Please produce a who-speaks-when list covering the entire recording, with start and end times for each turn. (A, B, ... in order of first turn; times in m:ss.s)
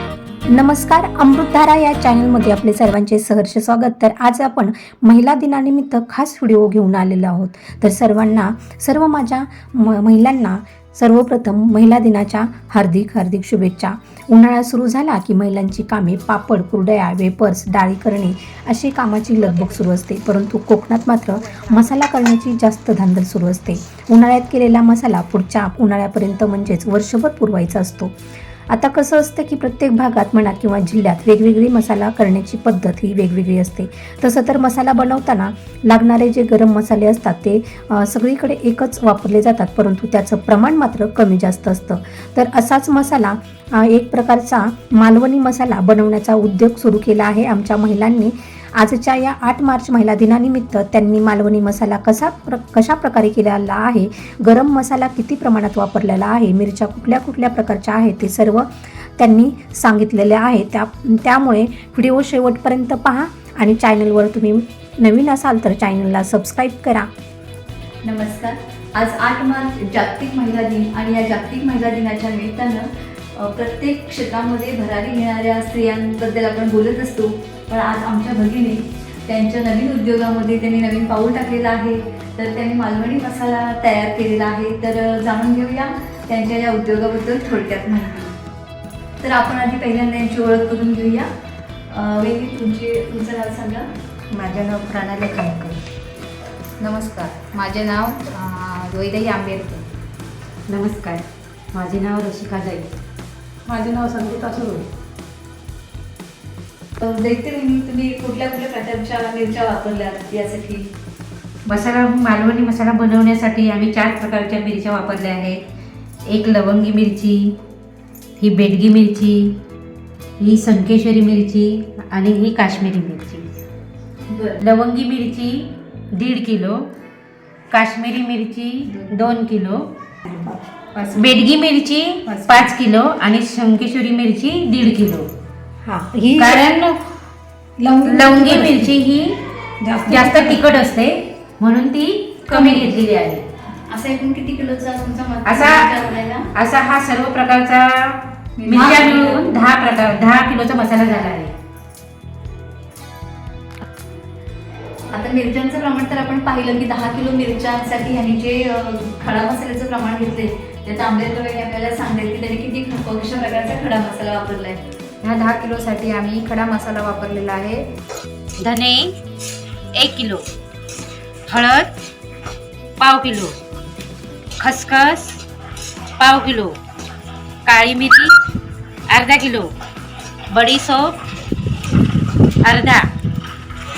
0:00.5-0:28.2 A
0:28.7-1:07.1 A
1:08.0-1:28.3 B
1:29.2-1:31.3 B
1:31.9-1:33.9 B
1:34.3-1:35.8 C
1:36.8-1:39.8 D
1:40.7-1:42.9 C
1:43.7-1:44.9 C
1:47.0-1:50.9 B
1:51.7-1:55.6 C
1:56.3-1:57.6 C
1:58.4-1:59.6 C
2:00.4-2:03.5 C
2:04.3-2:04.6 B
2:04.6-2:06.9 C
2:07.7-2:09.9 C
2:10.3-2:10.6 A
2:11.0-2:11.4 D
2:11.2-2:15.3 C
2:12.2-2:12.7 D
2:15.8-2:16.7 A
2:16.4-2:17.0 C
2:17.8-2:18.9 A
2:18.0-2:19.4 C
2:19.8-2:20.6 A
2:20.1-2:23.4 C
2:22.5-2:23.0 B
2:23.7-2:26.5 B
2:25.5-2:25.8 C
2:26.6-2:31.5 C
2:28.6-2:29.6 B
2:35.1-2:44.8 B
2:45.2-2:47.8 D
2:48.6-2:49.1 C
2:50.0-2:50.4 C
2:51.5-2:51.9 C
2:53.0-2:53.5 C
2:54.6-2:55.4 C
2:56.2-2:56.7 C
2:57.7-2:58.3 C
2:59.1-2:59.7 C
3:00.5-3:01.1 C
3:02.6-3:03.1 C